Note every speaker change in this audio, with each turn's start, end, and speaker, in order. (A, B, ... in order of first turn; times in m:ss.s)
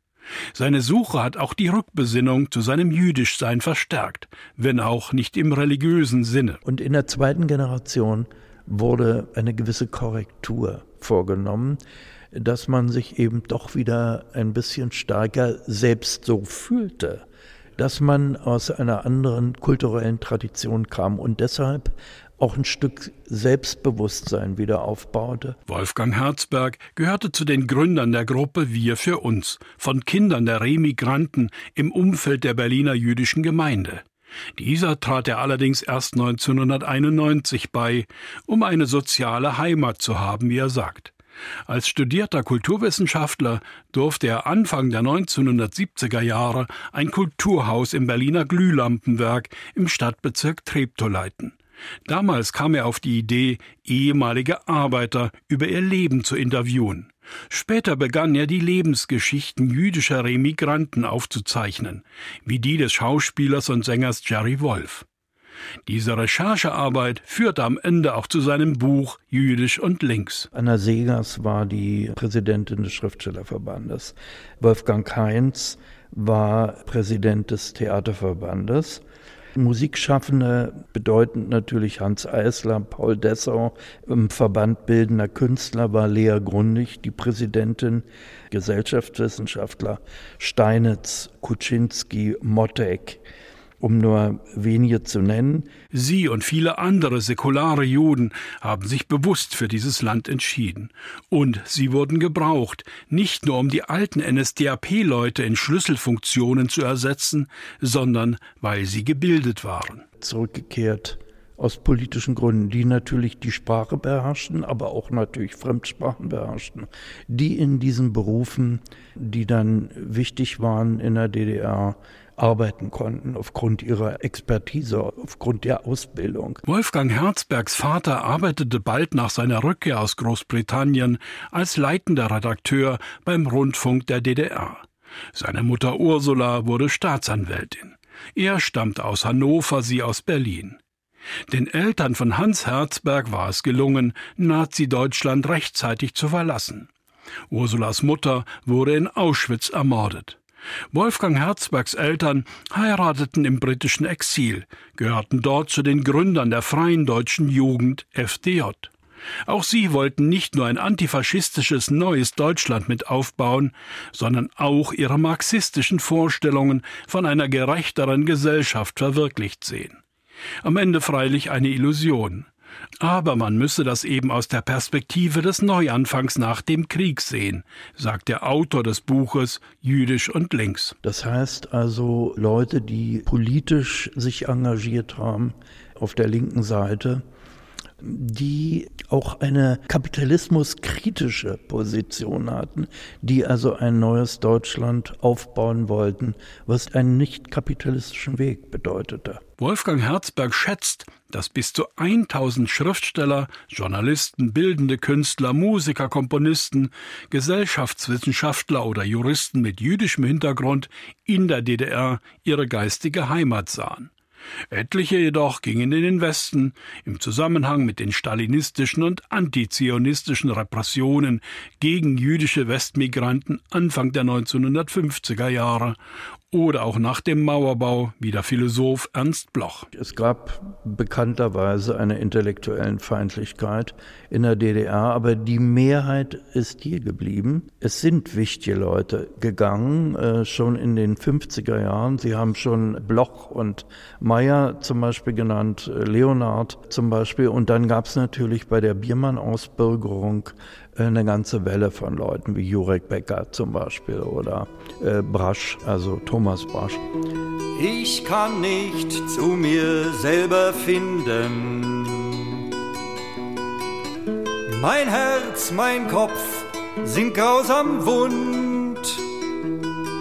0:00.5-0:06.6 A
0:06.6-0:11.8 B
0:12.3-0:17.2 B
0:17.8-0:25.6 B
0:25.7-0:34.0 A
0:34.6-0:41.1 A
0:41.7-1:05.0 A
1:05.8-1:10.5 A
1:10.5-1:19.0 B
1:19.6-1:33.2 B
1:33.8-1:35.7 B
1:35.9-1:50.0 A
1:50.2-2:06.6 B
2:06.6-2:20.8 A
2:21.5-2:26.9 A
2:27.5-2:30.4 A
2:30.9-2:38.9 A
2:39.4-2:50.0 A
2:50.6-2:52.5 A
2:53.0-3:01.0 A
3:01.0-3:07.2 B
3:08.0-3:19.4 B
3:19.6-3:34.1 A
3:34.7-3:46.0 A
3:46.5-3:49.9 A
3:49.9-4:17.0 B
4:17.7-4:22.4 C
4:24.7-4:29.2 C